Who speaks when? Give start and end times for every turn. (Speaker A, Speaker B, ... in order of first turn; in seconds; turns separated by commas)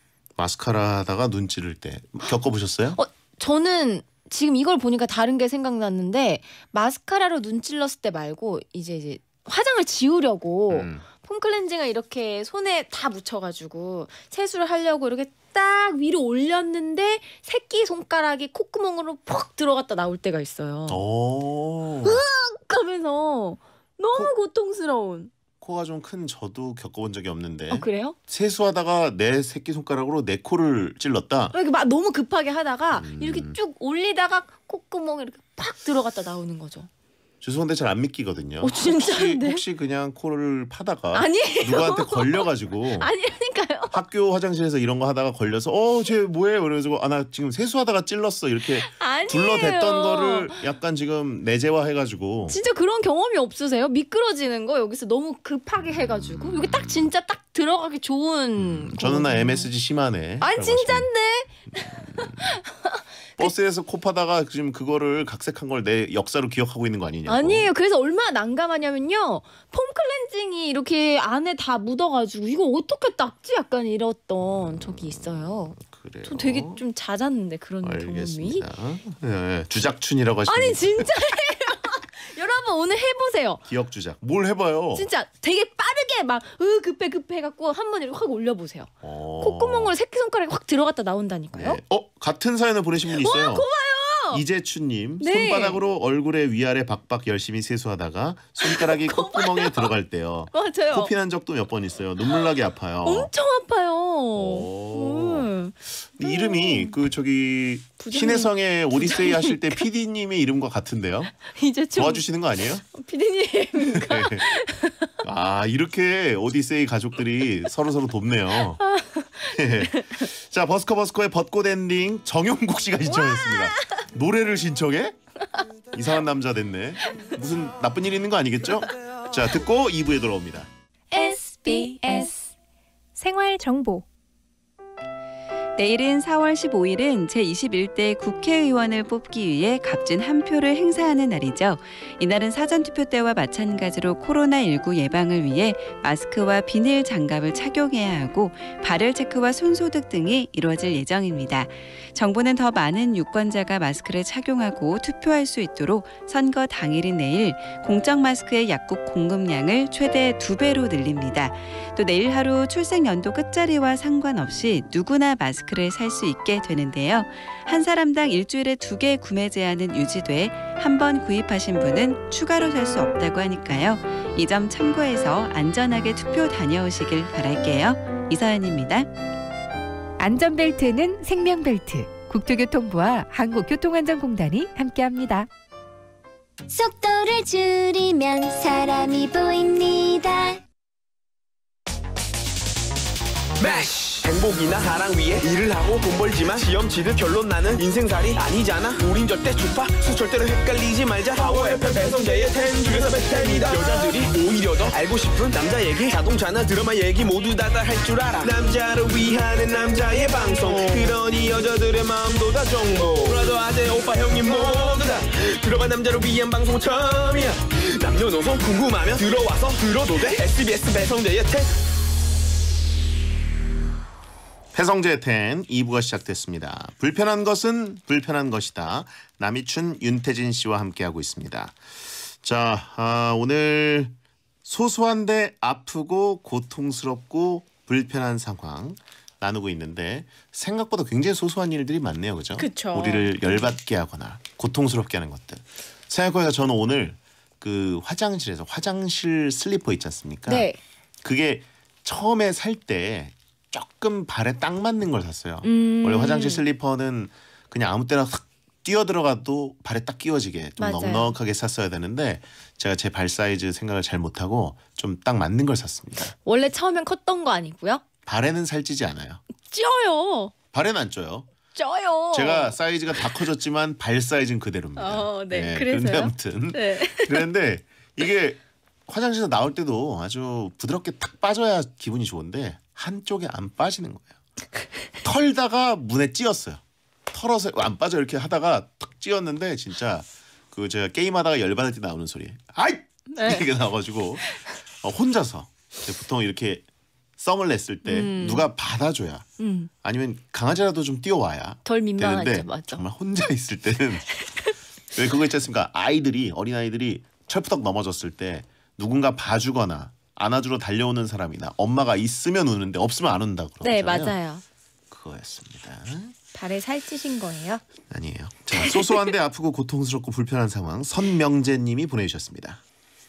Speaker A: 0.4-3.0, Speaker B: 3.0-21.0, Speaker A: 10.7-11.1, Speaker A: 20.9-22.2, Speaker B: 22.0-25.3, Speaker A: 25.6-31.6, Speaker B: 27.7-28.2, Speaker B: 31.5-36.9, Speaker A: 32.9-33.6, Speaker A: 37.4-43.1, Speaker B: 38.6-39.6, Speaker B: 41.1-44.0, Speaker A: 43.9-52.6, Speaker B: 48.8-50.6, Speaker B: 52.5-59.7, Speaker A: 55.8-57.1, Speaker A: 58.6-61.1, Speaker B: 60.4-63.5, Speaker A: 61.7-62.6, Speaker A: 63.4-67.7, Speaker B: 67.3-78.7, Speaker A: 74.4-76.8, Speaker A: 77.8-81.2, Speaker B: 80.5-83.6, Speaker A: 83.7-85.1, Speaker B: 85.0-91.8, Speaker A: 89.0-89.9, Speaker A: 91.5-93.7, Speaker B: 93.1-94.4, Speaker A: 94.3-103.3, Speaker B: 95.2-95.8, Speaker B: 98.6-99.9, Speaker B: 100.5-101.1, Speaker B: 103.0-107.0, Speaker A: 104.3-111.3, Speaker B: 108.0-109.9, Speaker B: 111.4-112.3, Speaker A: 112.0-112.8, Speaker B: 112.9-115.1, Speaker A: 113.8-114.5, Speaker A: 115.2-118.8, Speaker B: 118.8-120.3, Speaker A: 119.5-125.2, Speaker B: 123.1-124.0, Speaker A: 125.9-130.7, Speaker B: 131.1-132.3, Speaker C: 131.2-132.3, Speaker C: 133.2-133.9, Speaker B: 133.5-134.0, Speaker D: 135.8-179.1, Speaker C: 180.2-185.5, Speaker E: 186.7-190.6, Speaker F: 193.6-221.8, Speaker A: 203.8-204.1, Speaker A: 210.6-211.2, Speaker A: 224.7-250.7, Speaker B: 242.6-243.7, Speaker B: 250.5-250.8, Speaker A: 251.2-266.3, Speaker B: 255.6-256.6, Speaker B: 260.8-261.3, Speaker B: 266.4-268.0, Speaker A: 268.3-269.4, Speaker B: 269.6-270.5, Speaker A: 270.7-271.5, Speaker B: 271.8-272.8, Speaker A: 272.3-284.3, Speaker B: 275.0-277.5, Speaker A: 285.2-296.9, Speaker B: 293.3-293.7, Speaker A: 297.4-299.5, Speaker B: 298.0-298.7, Speaker B: 299.6-299.9, Speaker A: 300.0-304.4, Speaker B: 301.9-303.0, Speaker A: 305.1-314.4, Speaker B: 313.8-314.6, Speaker A: 315.1-316.4, Speaker B: 316.5-317.9, Speaker A: 318.1-322.8, Speaker B: 318.8-319.2